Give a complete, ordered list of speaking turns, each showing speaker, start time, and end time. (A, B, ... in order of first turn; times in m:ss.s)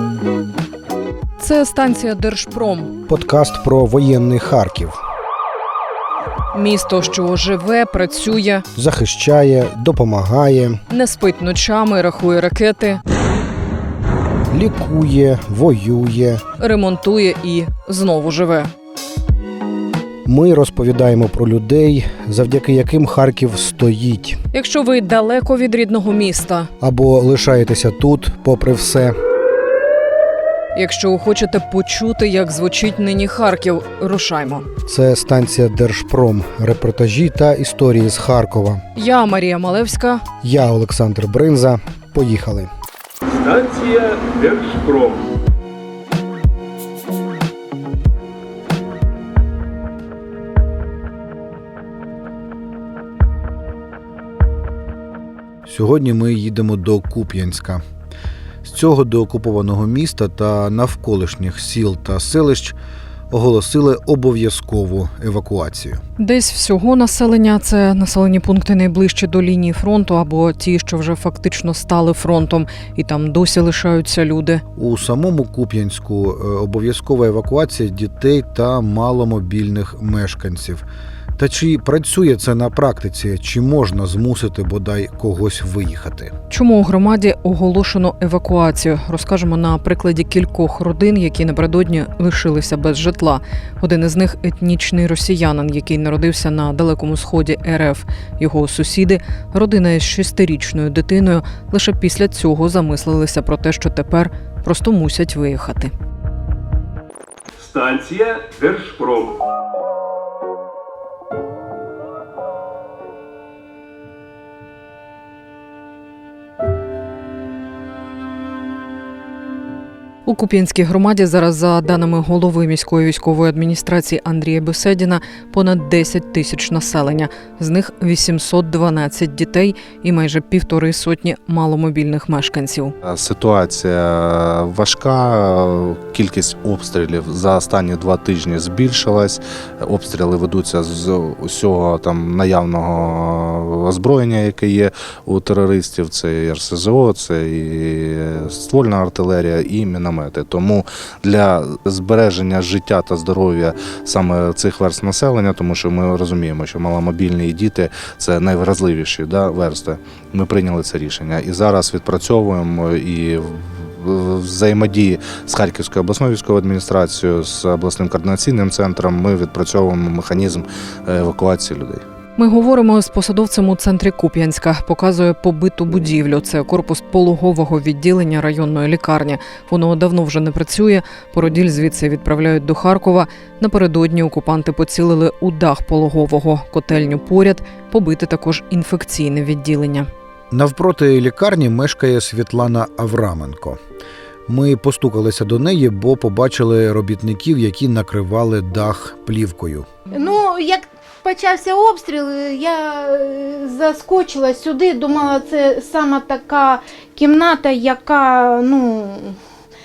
0:01.4-0:02.9 A
0:03.1-0:05.0 B
0:06.5-0:08.6 A
0:08.7-0:10.8 B
0:10.9-0:13.0 A
0:14.5-0:16.4 B
0:16.6-0:18.7 A
0:20.2-0:24.4 B
0:24.5-0:26.7 A
0:26.8-0:29.2 B
0:30.7-0:34.6 A
0:34.9-0:38.8 B
0:39.0-0:40.2 A
0:40.4-0:42.7 B
0:43.3-0:45.2 C
0:55.6-0:57.8 B
0:58.6-1:02.8 B
1:03.3-1:06.0 B
1:06.2-1:14.6 A
1:14.7-1:20.8 B
1:21.4-1:26.3 B
1:26.5-1:45.9 A
1:47.6-1:49.4 C
2:00.2-2:12.9 A
2:13.0-2:52.0 D
2:52.4-3:10.1 A
3:10.5-3:13.8 B
3:14.5-3:19.9 B
3:20.1-3:29.4 E